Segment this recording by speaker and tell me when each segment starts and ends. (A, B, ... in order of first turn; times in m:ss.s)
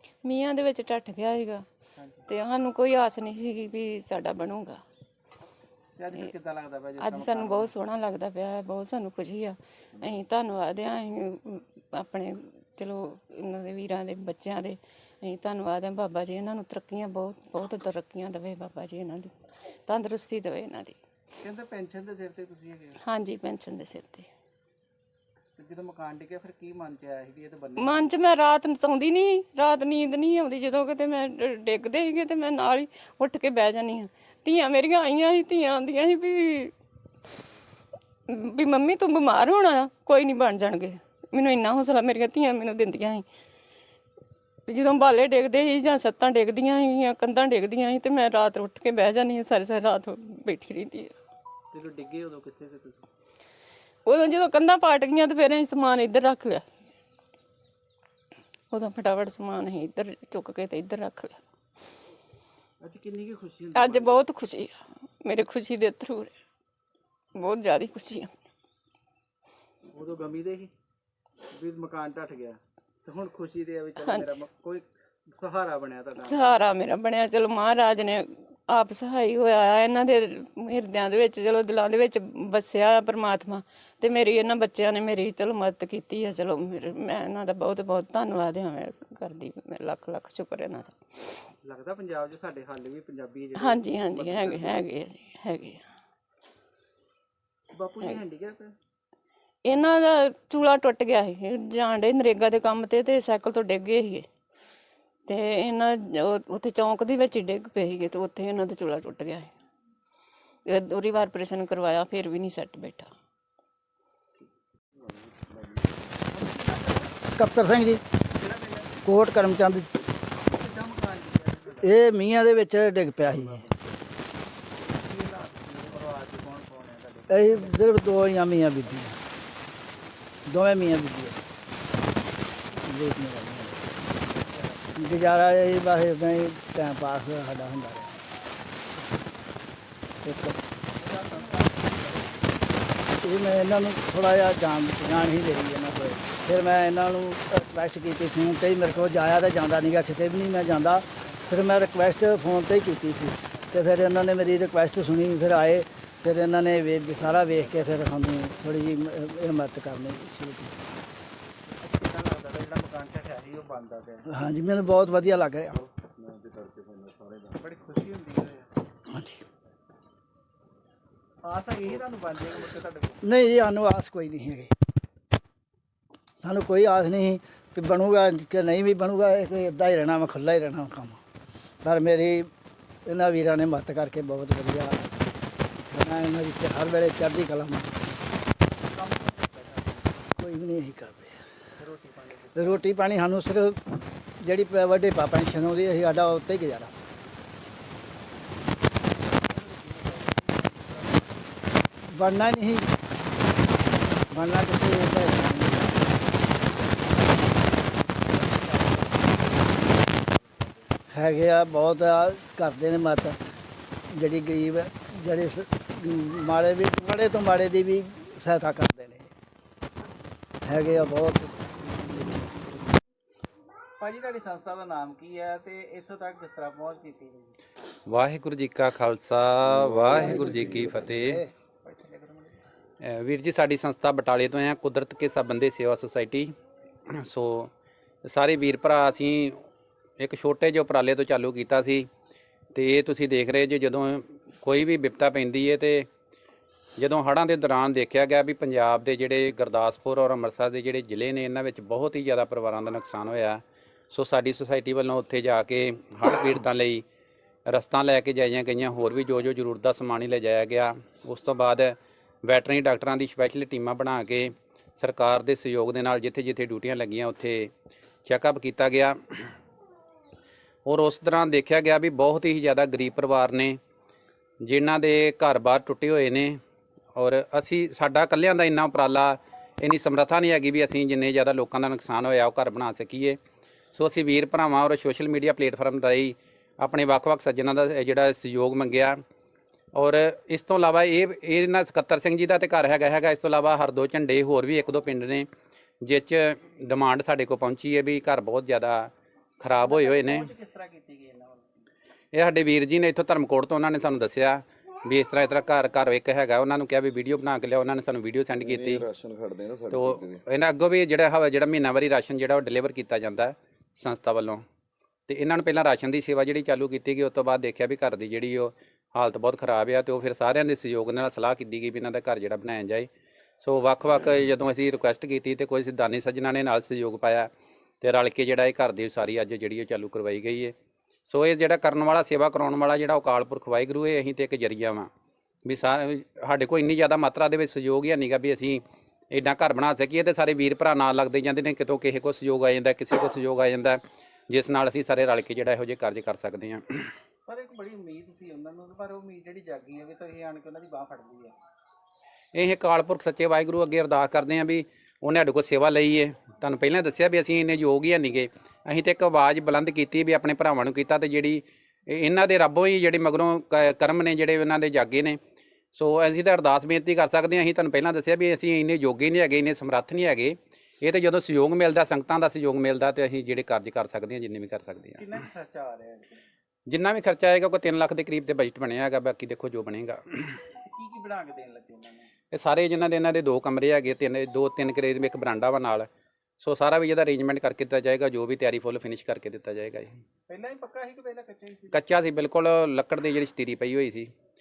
0:00.2-0:01.6 A
0:02.0-0:02.3 B
0:02.3-0:04.8 A
0:06.0-0:07.7 B
0:07.0-0:19.3 A
0:19.9-0:21.0 A
0:21.4-0:23.0 B
0:23.0-0:24.2 A
0:25.6-0:28.1 B
0:27.8-0:36.7 A
0:38.3-0:43.2 A
0:44.7-0:51.1 A
0:51.7-0:53.1 B
0:54.0-0:56.6 A
0:58.7-1:01.4 A
1:02.8-1:04.2 B
1:03.8-1:06.3 A
1:07.4-1:08.3 A
1:09.9-1:10.7 B
1:11.6-1:16.6 B
1:16.4-1:31.0 A
1:31.6-1:34.8 B
1:33.8-1:35.8 A
1:37.7-1:38.7 B
1:39.7-1:44.2 A
1:45.3-1:49.5 A
1:50.7-1:53.1 A
1:55.1-1:55.8 C
1:56.3-1:57.1 B
1:57.2-1:58.0 D
1:58.3-1:59.0 B
1:59.1-1:59.9 D
2:00.3-2:01.9 B
2:01.8-2:03.7 D
2:04.8-2:08.1 B
2:07.3-2:09.2 D
2:10.5-2:11.4 D
2:12.8-2:13.9 D
2:14.2-2:15.2 B
2:15.0-2:18.2 D
2:20.2-2:20.6 D
2:21.0-2:22.7 B
2:23.2-2:40.8 D
2:31.2-2:31.5 B
2:41.8-2:44.3 B
2:44.3-2:45.8 D
2:46.0-2:47.6 C
2:47.6-2:48.7 B
2:49.1-2:49.4 D
2:51.4-2:53.2 B
2:53.2-2:54.7 D
2:56.4-3:01.2 D
3:01.8-3:02.5 D
3:03.1-3:05.1 D
3:05.8-3:07.9 D
3:08.9-3:10.2 B
3:10.4-3:11.4 D
3:11.8-3:12.8 B
3:12.6-3:13.8 D
3:14.4-3:16.9 D
3:19.0-3:21.4 B
3:22.1-3:22.9 D
3:24.3-3:26.0 D
3:26.2-3:30.9 B
3:31.1-3:33.4 D
3:34.1-3:39.3 D
3:40.7-3:41.5 D
3:44.0-3:47.6 B
3:48.1-3:51.4 E
3:49.6-3:51.1 C
3:50.1-3:51.4 D
3:51.8-3:52.6 B
3:53.0-3:56.5 E
3:57.1-3:57.7 E
3:58.2-3:59.6 E
4:00.2-4:02.1 E
4:02.7-4:06.1 E
4:07.0-4:17.0 E
4:17.7-4:27.7 E
4:28.2-4:29.6 E
4:30.8-4:33.8 E
4:34.6-4:36.6 E
4:37.1-4:43.4 E
4:43.9-4:49.2 E
4:49.9-4:55.5 E
4:56.0-5:00.5 E
4:59.8-5:01.8 B
5:02.3-5:09.0 E
5:08.6-5:10.4 C
5:09.9-5:14.6 E
5:15.3-5:23.1 E
5:23.6-5:27.5 E
5:28.0-5:30.7 E
5:31.3-5:35.1 E
5:35.6-5:47.1 E
5:47.4-5:51.5 B
5:52.5-6:05.4 E
6:05.9-6:15.4 E
6:15.2-6:16.4 B
6:16.9-6:20.6 E
6:20.8-6:22.3 B
6:22.5-6:26.1 E
6:26.6-6:30.1 E
6:30.5-6:32.0 B
6:31.9-6:34.3 E